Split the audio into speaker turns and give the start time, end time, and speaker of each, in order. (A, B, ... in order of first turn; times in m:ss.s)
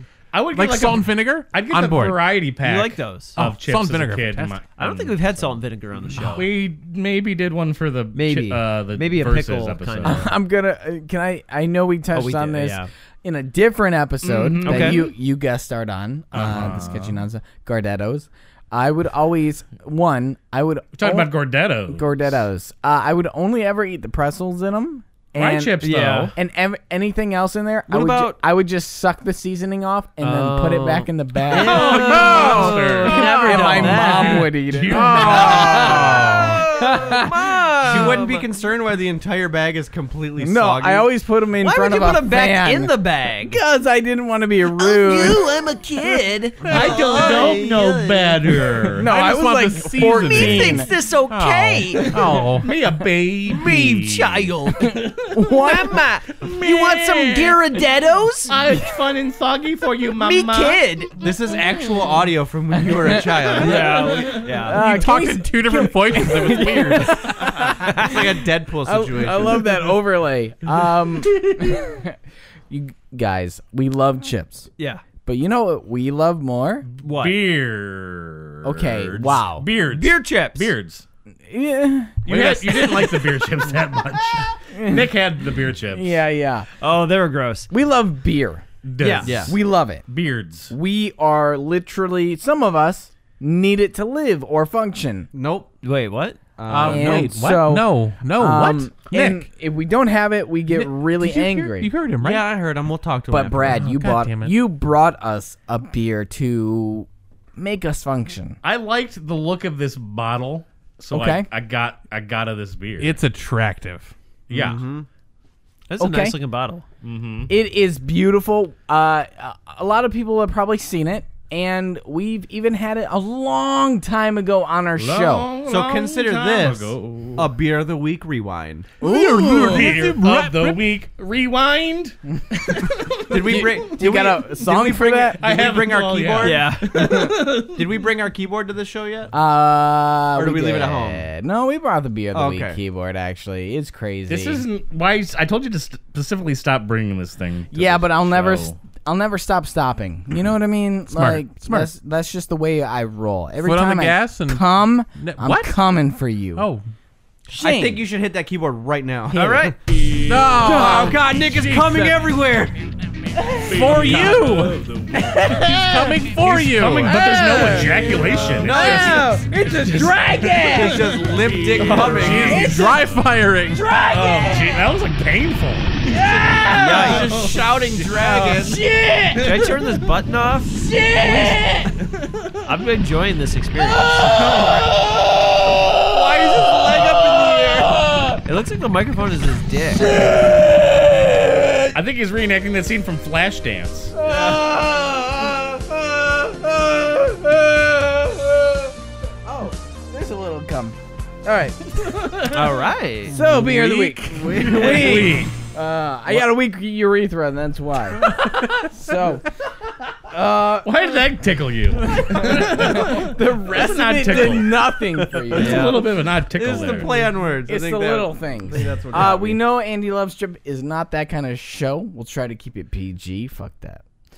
0:00.3-0:05.6 A
0:00.5-0:02.2 B
0:02.6-0:03.4 C
0:03.4-0:04.6 B
0:04.8-0:06.5 C
0:06.2-0:10.3 A
0:08.1-0:10.3 C
0:10.0-0:21.3 D
0:12.1-0:12.9 C
0:14.2-0:15.1 A
0:14.6-0:15.0 C
0:16.3-0:17.2 A
0:21.0-0:22.4 A
0:21.9-0:25.8 D
0:25.4-0:26.3 A
0:25.8-0:26.3 C
0:26.3-0:37.6 D
0:27.9-0:28.4 C
0:30.2-0:34.5 C
0:31.5-0:36.6 A
0:32.0-0:32.8 B
0:34.9-0:36.5 B
0:35.2-0:38.4 C
0:37.8-0:41.1 E
0:40.4-0:45.5 D
0:41.6-0:43.6 C
0:44.8-0:48.5 C
0:46.6-0:48.1 E
0:46.6-0:49.1 A
0:49.0-0:50.9 D
0:49.0-0:52.7 B
0:50.2-0:52.3 C
0:52.0-0:55.4 A
0:53.5-0:54.9 C
0:54.8-0:56.0 D
0:55.6-0:58.5 C
0:56.4-0:57.6 A
0:58.5-1:00.8 A
1:00.2-1:01.1 C
1:01.2-1:04.0 E
1:02.7-1:03.8 D
1:03.6-1:04.8 C
1:03.6-1:04.6 A
1:04.6-1:08.3 D
1:04.7-1:07.3 B
1:07.7-1:09.7 E
1:07.8-1:08.1 C
1:08.8-1:12.2 D
1:12.7-1:14.7 D
1:14.8-1:15.0 C
1:15.2-1:16.8 D
1:17.0-1:17.4 C
1:17.0-1:21.0 A
1:18.6-1:19.7 D
1:19.9-1:20.7 C
1:21.5-1:23.2 D
1:22.2-1:26.2 A
1:24.7-1:25.1 D
1:25.9-1:26.7 D
1:26.8-1:27.7 C
1:27.7-1:28.6 D
1:28.8-1:30.7 A
1:29.0-1:29.4 C
1:29.2-1:29.5 E
1:29.5-1:30.1 D
1:30.7-1:35.3 D
1:35.3-1:35.7 E
1:35.8-1:36.4 C
1:36.6-1:37.3 E
1:36.7-1:39.0 B
1:36.8-1:41.9 D
1:39.1-1:39.4 A
1:40.7-1:42.5 B
1:42.2-1:43.8 E
1:43.3-1:48.6 D
1:43.6-1:44.6 B
1:48.6-1:53.2 A
1:51.1-1:51.5 D
1:53.0-1:54.1 B
1:54.5-1:54.8 A
1:54.5-1:55.1 E
1:54.5-1:54.8 C
1:55.9-1:56.8 C
1:56.0-1:56.4 D
1:57.0-1:57.5 A
1:57.5-2:05.5 D
2:05.0-2:07.5 A
2:05.6-2:08.9 E
2:09.0-2:10.8 B
2:09.0-2:09.9 D
2:09.4-2:14.0 A
2:13.3-2:19.3 E
2:13.4-2:15.4 D
2:15.4-2:18.0 A
2:16.4-2:17.2 C
2:17.0-2:17.4 D
2:19.3-2:24.6 D
2:20.4-2:21.2 E
2:22.3-2:22.8 E
2:24.3-2:28.8 A
2:27.7-2:36.7 D
2:31.1-2:31.9 B
2:33.6-2:35.8 B
2:36.6-2:36.8 B
2:37.5-2:38.0 D
2:37.5-2:39.8 E
2:39.3-2:39.8 C
2:40.2-2:41.3 B
2:40.3-2:42.2 A
2:40.6-2:42.8 E
2:43.4-2:44.6 D
2:43.6-2:52.9 A
2:43.6-2:44.8 B
2:43.9-2:44.2 E
2:45.1-2:45.8 D
2:45.5-2:47.6 B
2:47.0-2:53.0 D
2:48.6-2:49.2 E
2:48.7-2:49.4 C
2:50.6-2:52.7 E
2:52.2-2:53.9 B
2:53.7-2:54.9 D
2:54.0-2:56.0 A
2:56.1-2:57.4 D
2:56.6-2:58.7 C
2:56.9-2:57.7 A
2:56.9-2:58.7 E
2:57.4-2:58.7 B
2:58.3-2:59.5 D
2:59.3-2:59.7 A
2:59.4-3:00.7 C
3:00.8-3:01.9 D
3:02.0-3:02.6 A
3:02.6-3:04.1 C
3:04.1-3:04.8 D
3:04.2-3:04.9 A
3:05.6-3:08.0 D
3:06.1-3:07.6 A
3:06.6-3:07.2 B
3:08.4-3:10.1 C
3:11.9-3:14.1 A
3:14.1-3:18.9 D
3:19.4-3:22.1 D
3:22.0-3:22.8 A
3:22.5-3:23.4 C
3:23.3-3:29.4 D
3:23.3-3:25.3 B
3:24.4-3:25.2 E
3:24.6-3:25.5 A
3:28.2-3:28.9 B
3:30.3-3:31.1 D
3:30.8-3:34.8 A
3:32.1-3:36.1 D
3:35.4-3:37.3 A
3:35.5-3:39.6 E
3:35.6-3:35.9 C
3:37.6-3:44.0 D